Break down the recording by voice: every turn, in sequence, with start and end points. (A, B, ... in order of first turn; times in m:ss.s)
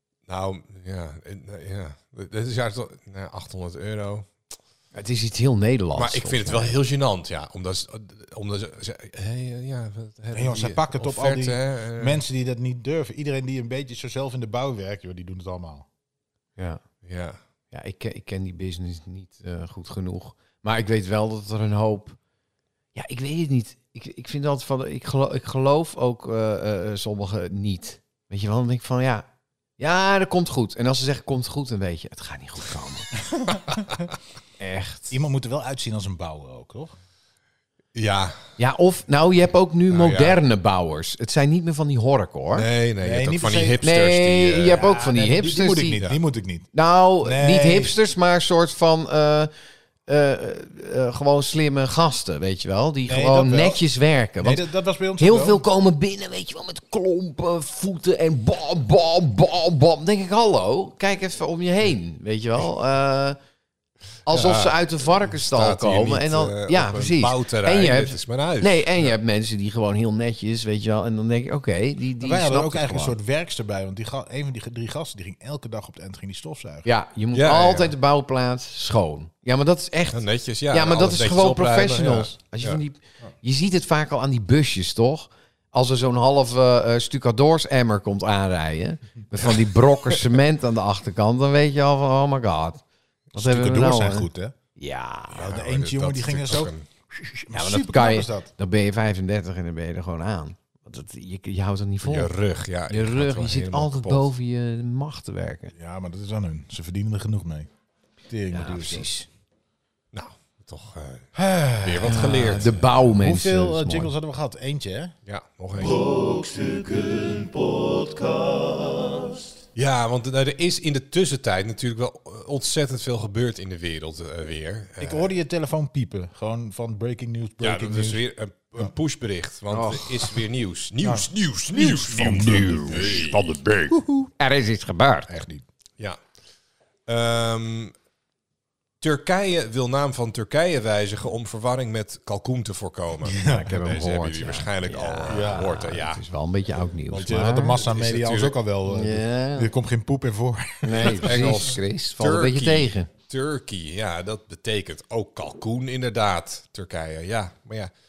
0:00.3-0:04.3 A
0:04.9-0:06.8 B
0:06.0-0:12.2 A
0:10.3-0:15.9 C
0:16.6-0:16.8 B
0:17.0-0:17.4 A
0:17.7-0:22.2 B
0:23.0-0:29.3 B
0:29.8-0:33.1 B
0:33.4-0:33.6 C
0:34.6-0:35.2 B
0:35.1-0:36.9 C
0:37.9-0:38.4 A
0:38.6-0:42.7 B
0:39.9-0:40.4 A
0:42.5-0:44.9 A
0:43.0-0:43.9 C
0:43.8-0:46.0 B
0:44.7-0:46.7 C
0:46.7-0:49.5 B
0:47.2-0:47.9 C
0:50.1-0:54.6 B
0:53.1-0:53.8 C
0:54.4-0:55.6 C
0:55.2-1:03.4 B
1:04.3-1:13.2 B
1:04.3-1:09.0 A
1:12.2-1:16.9 C
1:16.8-1:32.8 B
1:17.3-1:17.9 A
1:20.1-1:22.8 A
1:29.4-1:30.4 A
1:33.3-1:34.6 C
1:33.4-1:35.5 B
1:35.3-1:36.9 A
1:35.4-1:38.5 C
1:37.5-1:42.3 B
1:42.0-1:44.3 A
1:42.9-1:45.7 B
1:45.7-1:47.7 C
1:48.3-1:49.1 C
1:48.5-1:49.3 B
1:50.1-1:52.9 A
1:51.6-1:54.1 B
1:53.1-1:55.1 C
1:55.3-1:56.1 A
1:59.8-2:05.3 A
2:05.0-2:08.2 C
2:07.6-2:13.4 A
2:09.7-2:10.4 B
2:11.0-2:14.2 C
2:12.1-2:15.4 B
2:15.3-2:15.6 C
2:17.1-2:17.9 A
2:19.0-2:26.2 A
2:23.2-2:23.8 C
2:23.4-2:27.8 B
2:25.3-2:25.8 C
2:27.1-2:31.6 C
2:27.8-2:28.6 A
2:28.9-2:29.7 B
2:30.8-2:33.1 B
2:31.0-2:37.9 A